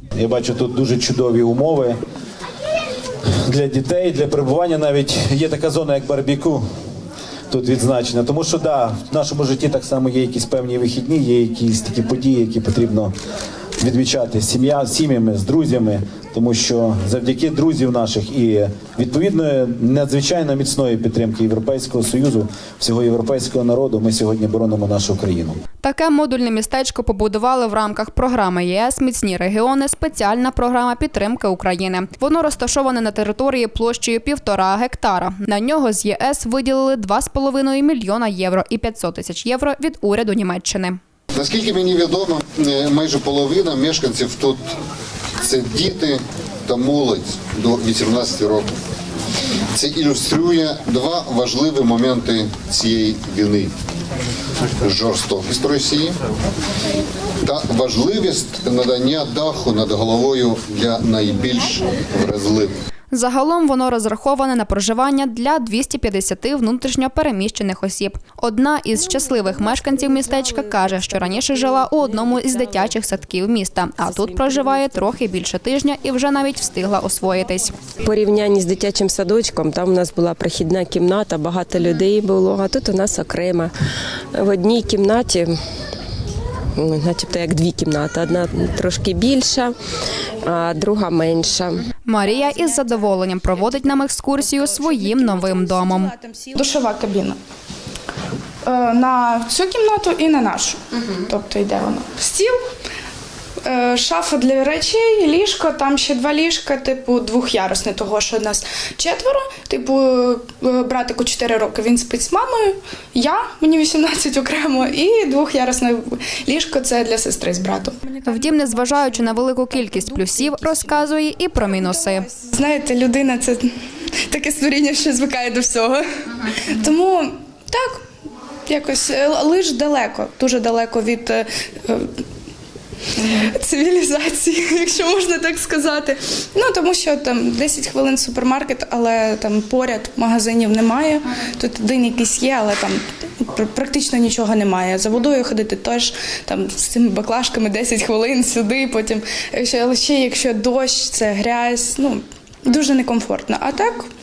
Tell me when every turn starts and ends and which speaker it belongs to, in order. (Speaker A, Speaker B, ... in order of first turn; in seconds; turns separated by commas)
Speaker A: 0.1-2.0, Speaker A: 3.2-6.6, Speaker A: 7.5-13.1, Speaker A: 13.8-25.6, Speaker B: 25.8-41.0, Speaker C: 41.3-44.7, Speaker C: 45.4-48.7, Speaker C: 49.7-53.7, Speaker C: 54.8-56.2, Speaker C: 57.4-62.7, Speaker B: 63.1-77.7, Speaker D: 69.4-72.9, Speaker D: 74.0-75.0, Speaker D: 78.0-83.7, Speaker D: 84.3-85.5, Speaker D: 86.8-89.7, Speaker D: 90.4-91.9, Speaker B: 92.0-96.1, Speaker E: 92.2-97.4, Speaker E: 98.6-102.6, Speaker E: 103.6-123.7, Speaker B: 118.2-122.3, Speaker E: 124.3-128.0, Speaker E: 128.7-132.2, Speaker E: 133.1-154.1